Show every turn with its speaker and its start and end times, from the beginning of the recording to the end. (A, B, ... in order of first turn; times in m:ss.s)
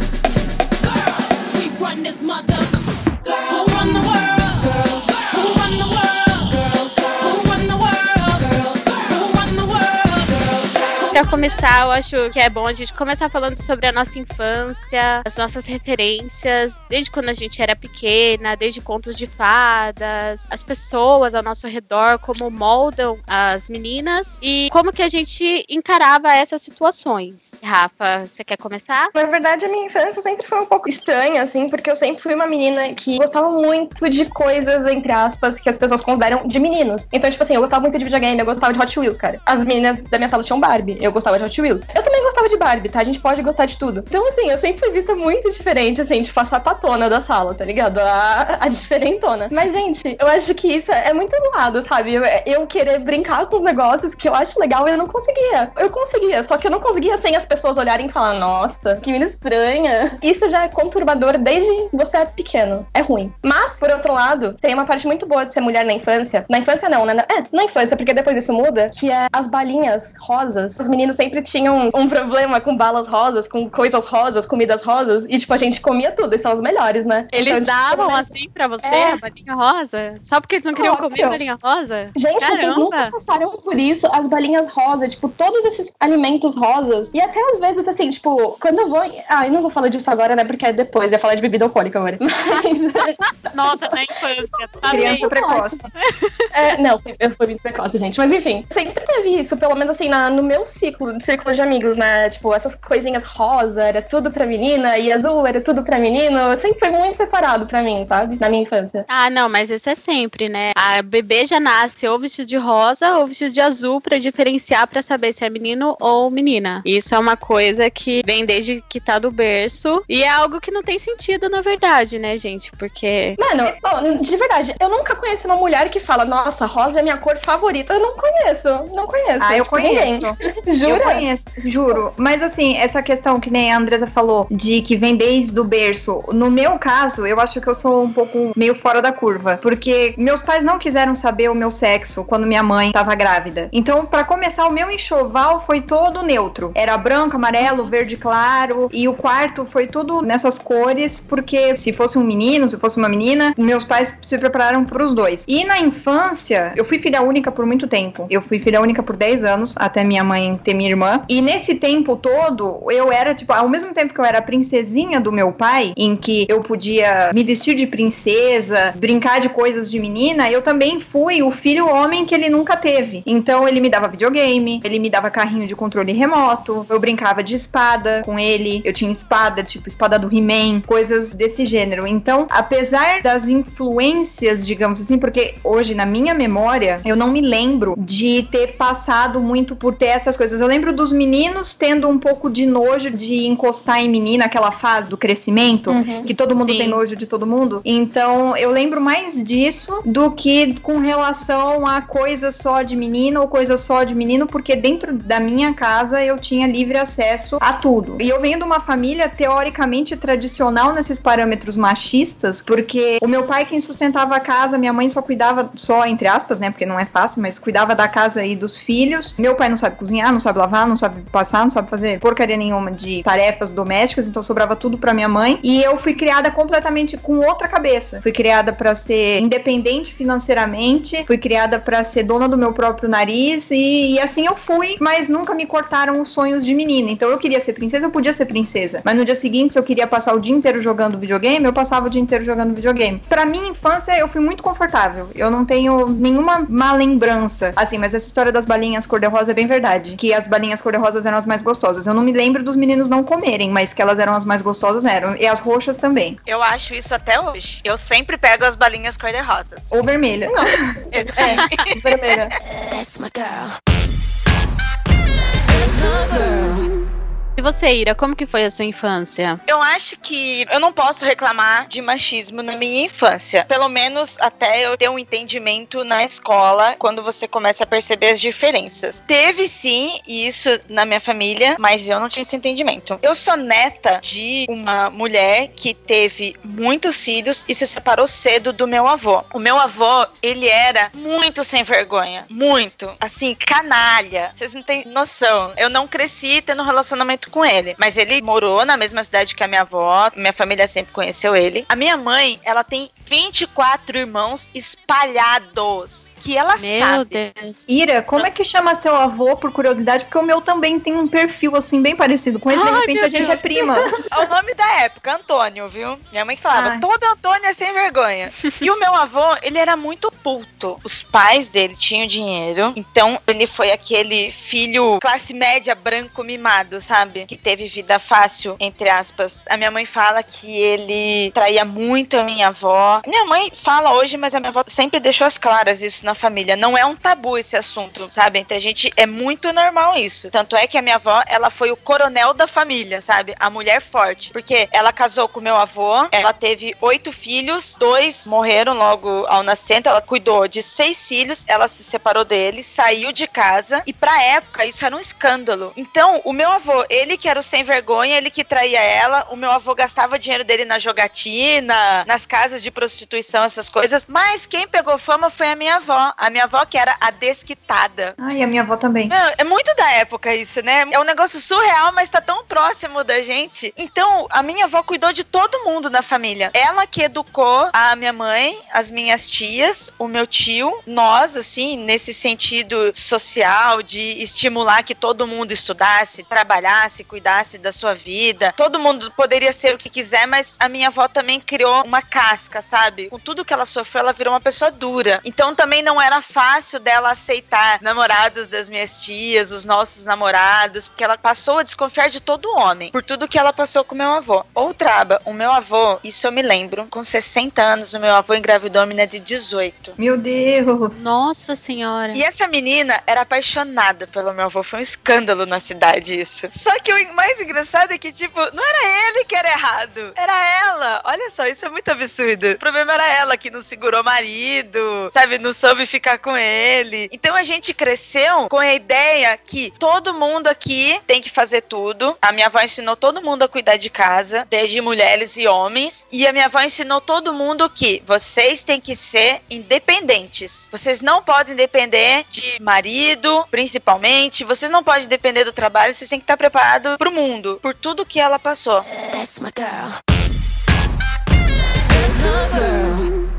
0:01.0-0:11.1 A
0:11.1-0:29.1 B
0:29.1-1:18.3 C
1:17.3-1:23.1 B
1:18.8-1:19.2 C
1:20.7-1:21.4 C
1:22.2-1:33.2 C
1:32.5-1:36.5 B
1:34.9-1:35.8 D
1:34.9-1:35.3 C
1:36.5-1:49.0 C
1:49.1-2:03.4 B
2:03.4-2:11.2 C
2:09.4-4:16.4 D
3:15.9-3:16.3 C
3:16.6-3:17.0 B
4:16.4-4:19.9 E
4:19.9-4:21.0 D
4:20.5-4:22.5 C
4:21.1-4:22.0 E
4:22.8-4:23.7 A
4:26.1-4:26.9 A
4:27.6-4:29.6 B
4:29.7-5:07.4 E
5:06.8-5:07.8 B
5:07.9-5:14.1 D
5:12.7-5:14.0 B
5:14.3-6:08.3 E
5:16.7-5:17.0 D
6:08.4-6:09.3 D
6:09.3-6:50.2 E
6:50.2-6:51.3 D
6:51.1-6:52.4 B
6:52.3-7:29.0 E
7:29.1-7:30.2 A
7:32.5-7:33.3 A